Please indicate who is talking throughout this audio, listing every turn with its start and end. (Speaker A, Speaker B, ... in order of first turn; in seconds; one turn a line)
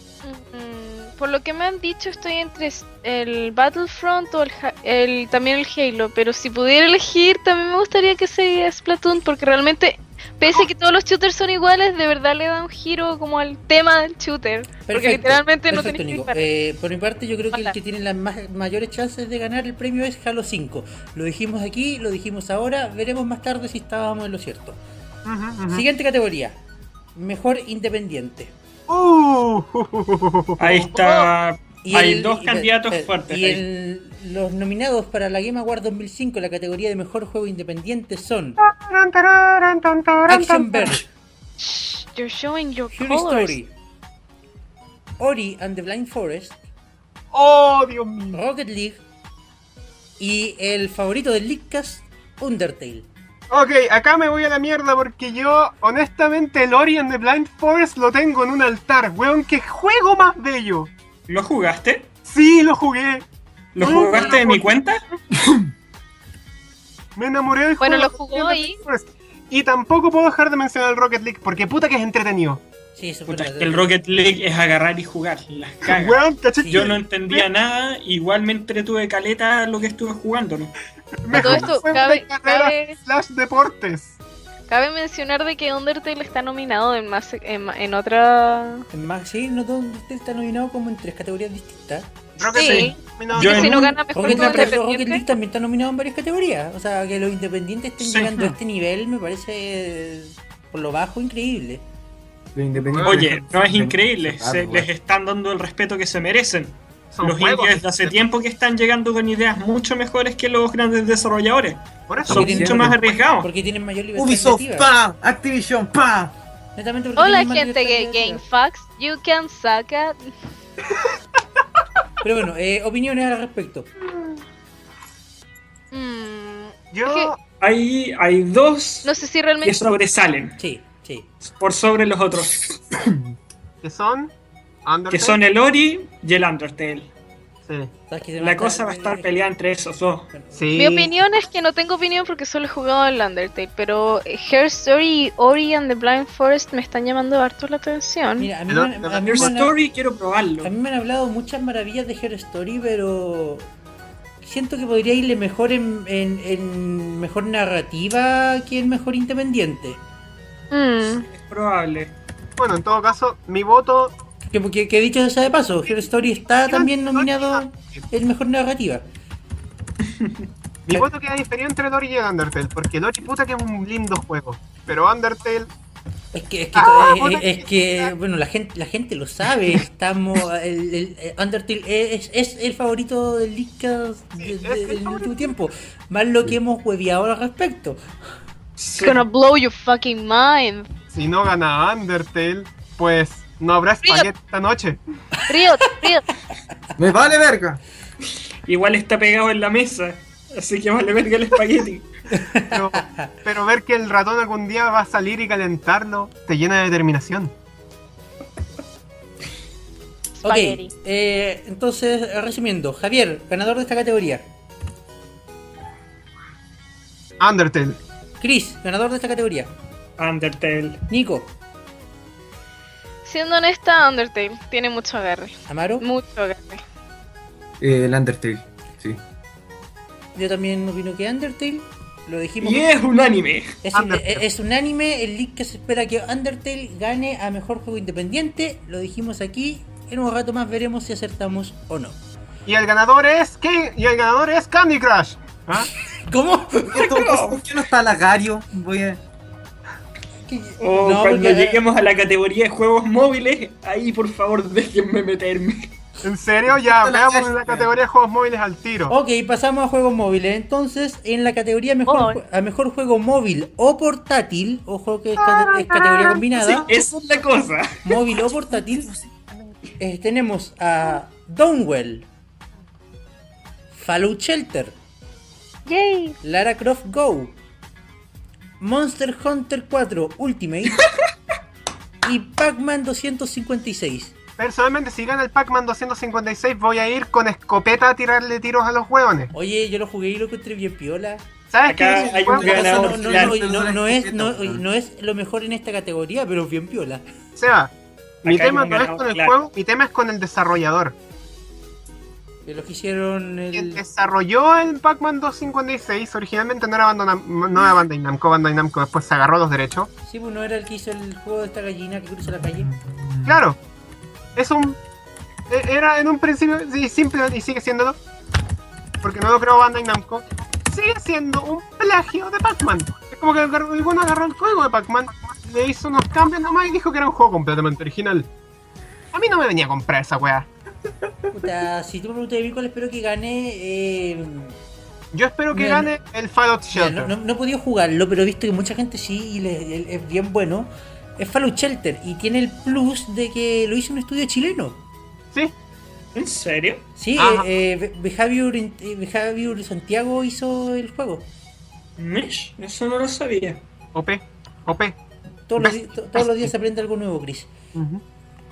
Speaker A: 0.2-16.4
Speaker B: 14.8-24.8
Speaker C: 25.2-25.9
Speaker B: 25.7-26.6
Speaker B: 27.1-28.5
Speaker C: 28.9-31.3
Speaker D: 30.6-33.6
Speaker B: 31.8-38.6
Speaker C: 38.6-41.0
Speaker B: 40.3-41.1
Speaker A: 41.6-43.6
Speaker B: 42.9-43.7
Speaker B: 45.2-46.6
Speaker C: 47.3-48.4
Speaker B: 48.3-49.0
Speaker B: 50.2-53.1
Speaker C: 53.5-60.9
Speaker D: 61.3-62.1
Speaker C: 62.2-64.8
Speaker D: 63.7-65.0
Speaker B: 63.8-64.2
Speaker C: 67.2-72.6
Speaker A: 67.8-68.8
Speaker B: 72.9-73.9
Speaker D: 73.3-80.7
Speaker C: 75.8-77.5
Speaker B: 76.6-76.9
Speaker C: 81.2-84.2
Speaker A: 81.3-83.0
Speaker A: 84.7-88.8
Speaker B: 88.9-92.1
Speaker C: 92.4-93.9
Speaker A: 92.5-95.2
Speaker D: 92.5-94.7
Speaker B: 94.1-101.8
Speaker D: 98.0-98.5
Speaker E: 102.5-104.9
Speaker C: 102.9-103.2
Speaker D: 103.0-113.5
Speaker C: 107.1-108.2
Speaker C: 112.1-112.7
Speaker E: 112.3-112.9
Speaker B: 112.3-114.9
Speaker E: 114.2-116.3
Speaker B: 116.8-118.4
Speaker A: 117.2-120.2
Speaker B: 122.2-123.9
Speaker A: 125.9-127.3
Speaker C: 126.9-127.4
Speaker D: 127.6-129.1
Speaker A: 129.0-129.8
Speaker D: 129.6-130.6
Speaker B: 130.6-131.3
Speaker D: 131.4-132.8
Speaker C: 133.8-134.3
Speaker C: 134.8-135.4
Speaker D: 135.1-137.1
Speaker B: 138.1-139.3
Speaker D: 138.4-140.3
Speaker B: 140.3-140.7
Speaker C: 140.5-141.1
Speaker A: 140.7-148.5
Speaker B: 148.4-149.7
Speaker C: 148.7-149.5
Speaker D: 149.2-150.7
Speaker B: 150.6-153.7
Speaker B: 154.4-160.0
Speaker A: 160.7-161.2
Speaker D: 161.0-162.1
Speaker C: 162.6-164.2
Speaker B: 164.5-169.1
Speaker C: 166.6-168.0
Speaker D: 170.0-170.4
Speaker C: 170.8-175.7
Speaker B: 176.3-188.0
Speaker C: 176.7-178.1
Speaker C: 184.4-185.5
Speaker D: 188.8-189.2
Speaker A: 189.0-190.9
Speaker C: 191.1-195.0
Speaker A: 194.0-194.3
Speaker A: 195.5-196.2
Speaker E: 197.0-197.8
Speaker D: 198.7-202.1
Speaker B: 202.3-203.3
Speaker C: 202.7-207.5
Speaker A: 210.4-210.9
Speaker B: 210.4-214.4
Speaker C: 217.4-218.0
Speaker B: 218.4-219.7
Speaker D: 220.2-221.0
Speaker B: 221.1-221.5
Speaker A: 223.2-226.8
Speaker B: 225.7-226.1
Speaker E: 227.8-229.2
Speaker B: 230.3-232.9
Speaker D: 232.6-233.8
Speaker B: 233.8-242.2
Speaker C: 233.9-234.4
Speaker C: 242.7-245.9
Speaker B: 246.1-247.2
Speaker E: 246.8-249.2
Speaker D: 247.0-247.6
Speaker B: 250.4-251.8
Speaker D: 250.8-255.9
Speaker C: 256.2-259.1
Speaker E: 256.7-257.9
Speaker B: 259.1-266.9
Speaker A: 262.1-262.4
Speaker C: 265.4-266.8
Speaker D: 266.9-268.0
Speaker B: 268.0-269.1
Speaker B: 270.0-272.3
Speaker B: 273.9-274.9
Speaker A: 275.9-276.3
Speaker B: 276.4-277.6
Speaker B: 278.8-281.1
Speaker B: 282.2-284.3
Speaker C: 284.6-289.5
Speaker B: 289.5-291.5
Speaker C: 291.7-293.1
Speaker D: 291.9-293.6
Speaker E: 292.2-294.8
Speaker B: 292.5-297.2
Speaker C: 297.6-297.9
Speaker D: 298.4-299.5
Speaker C: 298.4-301.1
Speaker B: 302.6-304.0
Speaker C: 303.7-310.1
Speaker B: 310.2-312.9
Speaker E: 312.7-313.6
Speaker C: 313.4-313.8
Speaker C: 314.6-315.0
Speaker C: 315.7-318.2
Speaker C: 319.2-328.5
Speaker C: 329.3-330.7
Speaker B: 331.5-334.8
Speaker C: 335.3-337.3
Speaker B: 335.7-336.1
Speaker B: 336.9-345.0
Speaker D: 346.3-347.0
Speaker B: 347.1-351.5
Speaker C: 347.4-347.7
Speaker D: 352.2-353.8
Speaker C: 354.1-355.1
Speaker B: 355.7-357.7
Speaker C: 355.8-356.7
Speaker C: 357.9-358.2